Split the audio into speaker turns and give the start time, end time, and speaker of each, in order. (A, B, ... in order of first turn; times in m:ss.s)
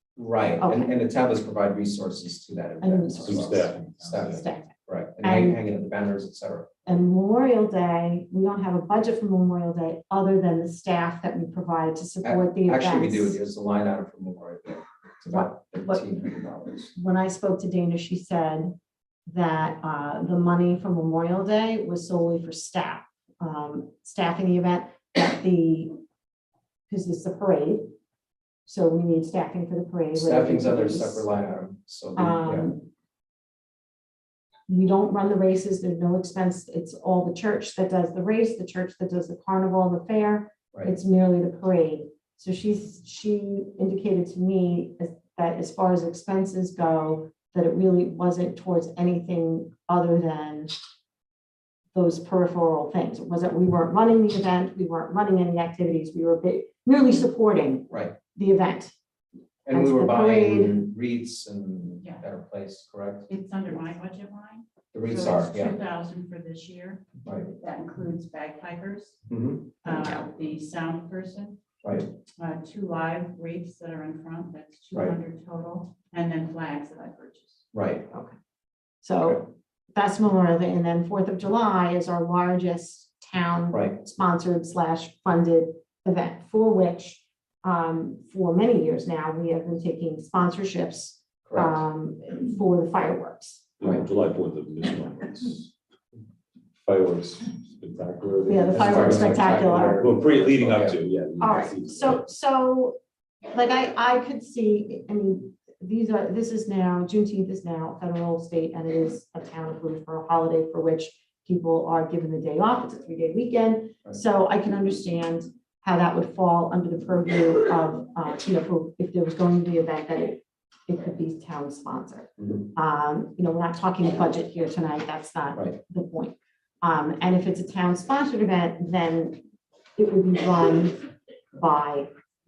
0:00.2-0:06.9 A
0:00.6-0:00.9 B
0:02.8-0:05.6 B
0:03.2-0:04.4 C
0:06.9-0:13.4 B
0:12.2-0:16.9 A
0:15.3-0:16.0 B
0:16.9-0:18.8 B
0:19.3-0:26.0 B
0:26.9-0:27.9 B
0:28.6-0:31.2 B
0:30.1-0:32.7 A
0:32.2-0:32.9 B
0:34.7-0:50.7 B
0:51.9-0:58.9 B
0:57.9-0:58.2 A
0:59.6-1:03.3 A
0:59.7-1:00.9 B
1:03.3-1:09.2 D
1:04.9-1:05.8 A
1:07.2-1:07.5 A
1:09.3-1:09.7 A
1:09.8-1:11.6 D
1:11.8-1:12.1 A
1:12.4-1:17.6 D
1:17.7-1:18.0 A
1:19.0-1:33.6 B
1:31.4-1:31.8 A
1:33.8-1:35.7 C
1:36.8-1:42.2 C
1:38.4-1:40.1 B
1:38.7-1:41.0 A
1:41.4-1:43.0 B
1:43.5-2:09.4 B
2:10.0-2:11.0 B
2:11.6-2:12.1 B